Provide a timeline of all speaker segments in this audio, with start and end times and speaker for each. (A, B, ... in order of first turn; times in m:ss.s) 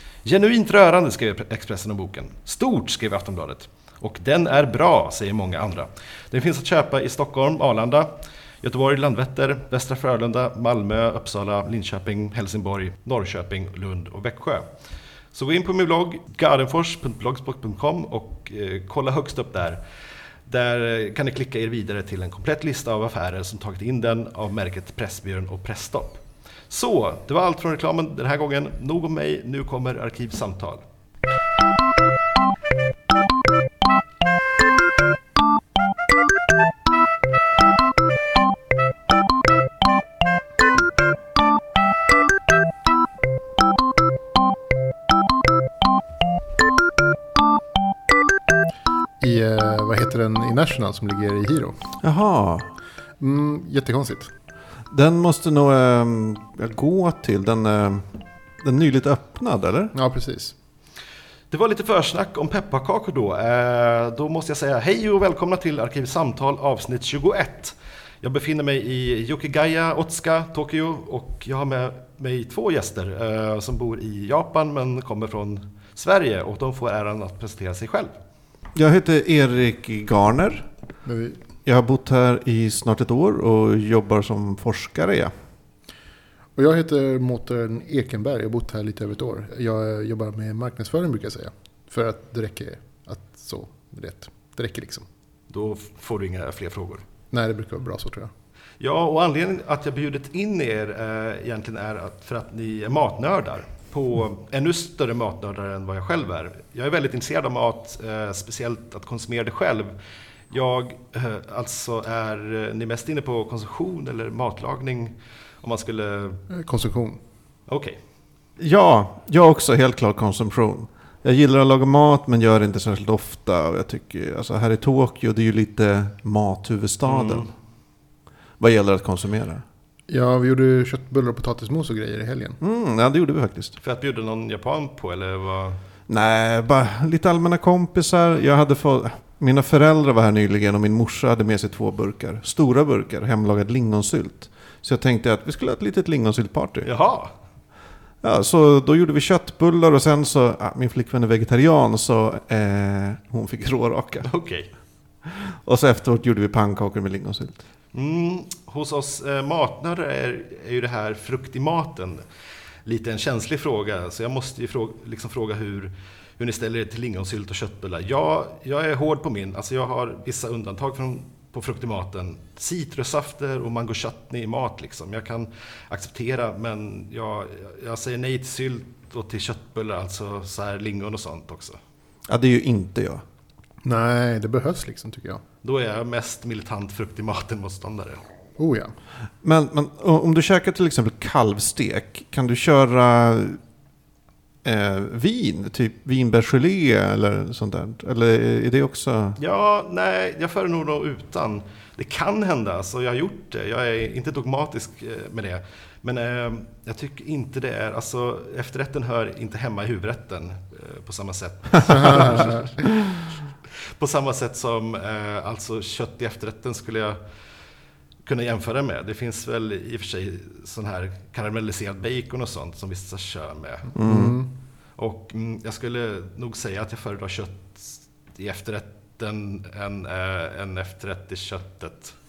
0:00.2-0:14.7 A
0:15.3-0:19.8 A
0:20.4-0:30.8 A
0:49.2-0:51.8 B
0:52.0-0:52.7 C
0:53.2-0:54.3 B
0:54.9-0:58.1 C
0:58.6-0:59.9 C
0:59.9-1:00.5 B
1:01.5-1:18.1 A
1:18.7-1:20.7 C
1:21.0-1:21.4 B
1:21.6-1:25.3 C
1:26.6-1:35.0 B
1:35.5-1:37.0 A
1:37.3-1:38.3 B
1:38.8-1:50.0 A
1:50.5-1:56.4 A
1:56.5-1:57.2 B
1:57.7-1:58.0 A
1:58.6-2:07.5 C
2:07.0-2:07.5 A
2:08.6-2:09.6 C
2:10.1-2:12.6 B
2:12.6-2:13.8 C
2:13.8-2:15.8 A
2:16.1-2:26.9 C
2:26.8-2:27.3 A
2:28.2-2:34.3 C
2:34.2-2:34.7 A
2:35.2-2:37.6 C
2:37.9-2:42.2 A
2:42.8-3:01.8 A
3:02.3-3:03.2 C
3:03.8-3:05.4 B
3:05.6-3:08.2 A
3:08.6-3:08.9 B
3:09.4-3:13.6 C
3:14.6-3:19.4 C
3:19.4-3:32.8 A
3:32.0-3:32.4 B
3:33.8-3:37.2 A
3:38.2-3:43.9 A
3:44.0-3:44.4 C
3:44.0-3:44.5 B
3:45.0-3:52.1 A